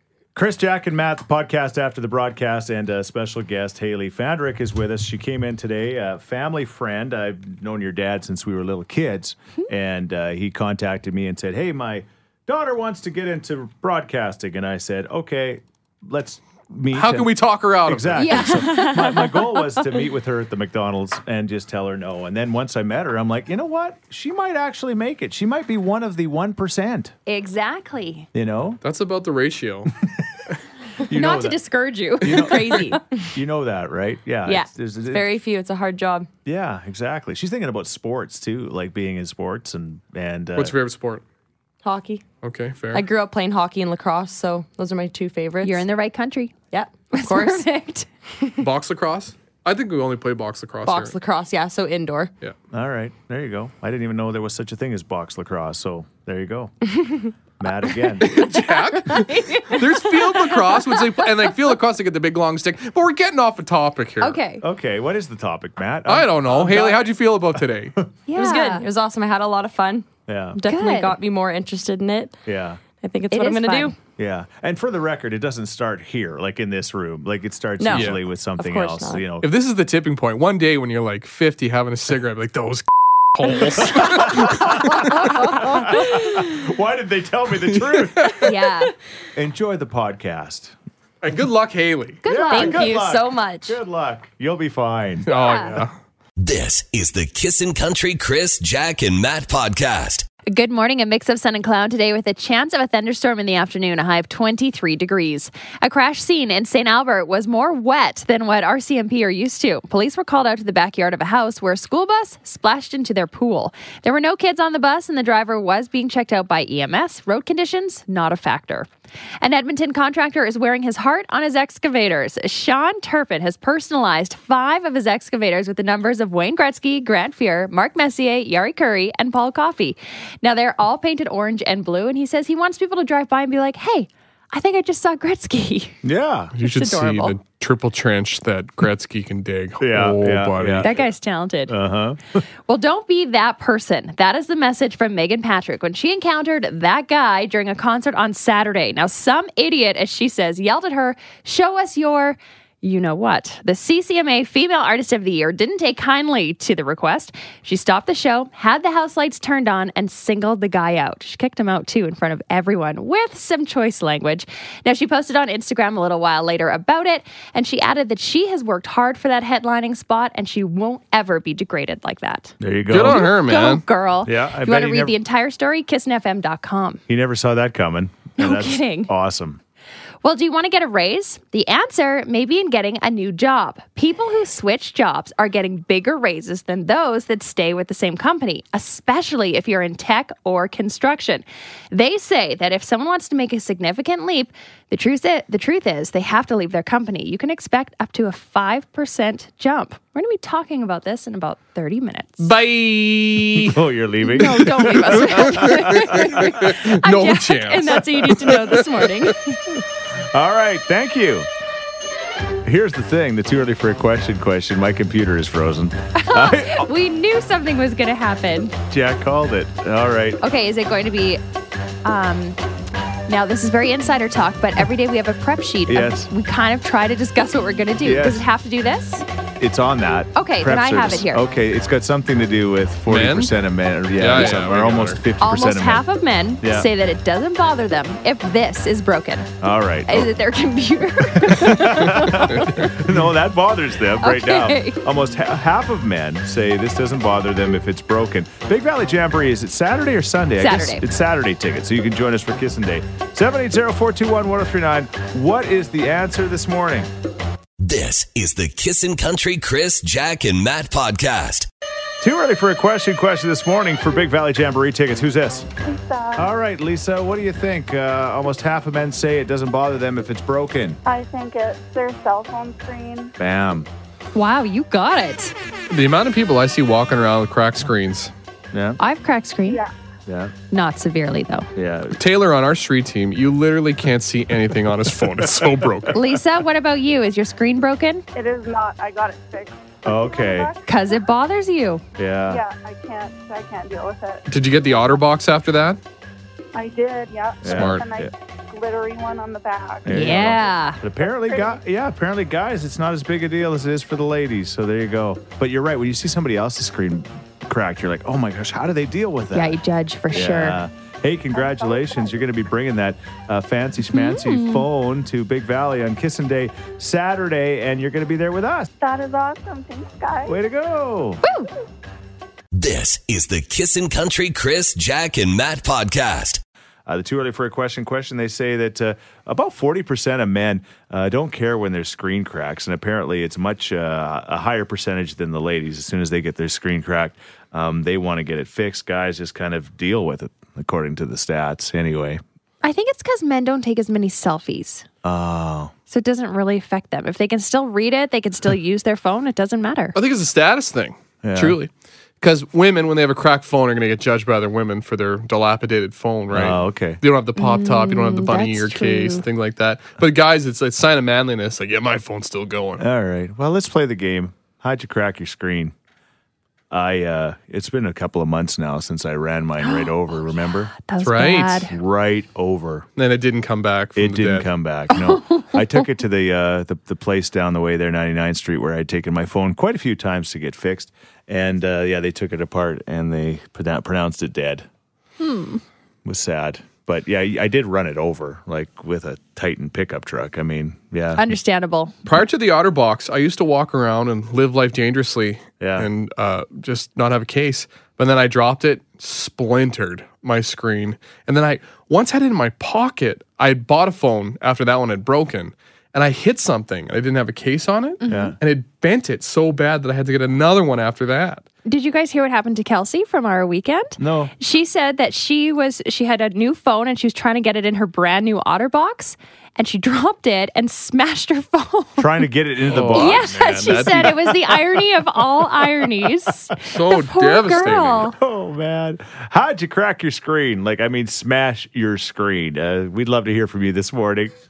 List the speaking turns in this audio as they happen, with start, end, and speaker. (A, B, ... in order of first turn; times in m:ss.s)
0:00.3-0:27.1 A
0:16.9-0:18.6 B
0:18.2-0:19.8 C
0:27.2-0:28.3 C
0:28.3-0:28.8 A
0:28.8-0:29.9 B
0:31.0-0:31.6 A
0:31.1-0:33.0 C
0:32.2-0:35.3 A
0:35.1-0:36.3 D
0:36.4-0:40.8 A
0:40.6-0:41.2 B
0:41.8-0:42.2 D
0:42.4-0:43.0 B
0:42.9-0:45.8 D
0:45.6-0:46.6 C
0:46.7-0:47.7 D
0:47.1-0:48.1 C
0:48.6-0:51.2 B
0:50.8-0:52.3 D
0:52.7-0:56.7 A
0:57.6-0:58.4 A
0:58.3-1:04.4 B
0:59.0-1:01.0 C
1:04.2-1:04.6 C
1:04.6-1:07.0 A
1:06.0-1:08.0 B
1:08.3-1:08.9 C
1:08.3-1:12.4 D
1:10.3-1:10.6 A
1:10.6-1:11.2 C
1:12.4-1:12.8 A
1:13.0-1:14.0 D
1:13.3-1:13.9 C
1:14.2-1:19.5 A
1:17.8-1:19.2 D
1:17.9-1:18.2 B
1:19.4-1:25.0 B
1:23.8-1:28.5 A
1:24.9-1:26.0 C
1:28.2-1:28.4 B
1:28.4-1:28.9 C
1:29.3-1:30.7 A
1:31.2-1:32.2 B
1:32.2-1:33.8 C
1:32.2-1:35.3 A
1:35.3-1:35.9 B
1:35.3-1:35.8 C
1:36.4-1:40.2 E
1:40.5-1:58.9 C
1:59.4-2:16.0 C
2:16.0-2:16.5 A
2:16.6-2:20.9 B
2:16.6-2:17.4 C
2:19.8-2:21.0 A
2:20.8-2:21.7 C
2:21.7-2:22.4 A
2:22.7-2:52.5 C
2:52.6-2:53.3 A
2:52.9-2:53.8 B
2:53.0-2:57.0 C
2:54.2-2:55.2 A
2:57.1-2:59.6 A
2:58.4-2:59.1 C
3:00.2-3:22.5 C
3:22.4-3:23.8 B
3:23.6-3:26.2 A
3:24.3-3:29.6 C
3:24.8-3:29.2 B
3:30.3-3:31.5 A
3:32.6-3:36.9 A
3:36.1-3:38.8 C
3:38.9-3:40.4 A
3:40.4-3:41.4 C
3:42.0-3:42.6 C
3:43.3-3:49.2 C
3:45.9-3:46.3 A
3:48.0-3:48.4 A
3:49.6-3:56.0 A
3:50.3-3:51.4 C
3:53.1-3:53.5 B
3:54.2-3:55.2 B
3:55.4-3:59.5 C
3:56.6-3:56.9 A
3:59.6-4:00.3 A
4:00.0-4:02.7 C
4:01.4-4:17.1 A
4:02.5-4:02.9 B
4:04.2-4:05.0 C
4:10.6-4:11.0 C
4:17.8-4:21.7 E
4:22.2-4:25.7 A
4:25.8-4:26.5 F
4:26.3-4:31.0 A
4:31.0-4:33.3 F
4:33.4-4:33.9 A
4:34.3-4:35.5 C
4:35.9-4:38.3 B
4:38.7-4:39.0 A
4:39.0-4:39.8 C
4:40.2-4:40.5 A
4:40.7-4:41.7 C
4:41.7-4:42.2 A
4:42.1-4:46.2 B
4:45.4-4:46.1 A
4:46.1-4:48.2 C
4:48.3-4:51.2 F
4:50.0-4:50.7 A
4:50.8-4:52.0 C
4:52.2-4:52.6 A
4:52.5-4:54.4 F
4:54.5-4:56.0 B
4:56.7-5:00.0 F
4:57.6-4:58.3 A
4:57.6-4:58.0 B
5:00.0-5:09.8 A
5:00.0-5:01.0 C
5:01.2-5:01.8 F
5:09.5-5:10.8 C
5:10.3-5:18.9 A
5:11.5-5:12.3 F
5:14.1-5:14.8 C
5:19.0-5:20.6 F
5:20.4-5:21.4 A
5:21.4-5:21.7 C
5:22.7-5:26.6 E
5:27.1-5:42.4 A
5:42.8-5:45.0 C
5:45.2-5:45.9 A
5:46.1-5:50.1 C
5:50.1-5:51.9 B
5:51.4-5:51.8 A
5:52.4-6:03.0 B
5:56.5-5:57.2 A
5:57.6-5:59.4 C
6:03.0-6:05.9 A
6:06.9-6:10.9 A
6:09.8-6:11.9 C
6:11.2-6:11.9 B
6:11.9-6:13.0 A
6:13.2-6:14.7 B
6:14.2-6:24.9 A
6:15.1-6:15.8 C
6:25.4-6:25.8 C
6:26.2-6:31.5 A
6:31.4-6:32.1 C
6:32.2-6:51.6 B
6:35.8-6:36.1 A
6:48.2-6:48.5 C
6:48.3-6:48.6 A
6:51.8-7:02.4 C
6:54.2-6:54.5 A
7:02.2-7:04.4 A
7:02.9-7:05.0 B
7:03.0-7:08.4 C
7:06.8-7:08.3 B
7:08.3-7:14.5 A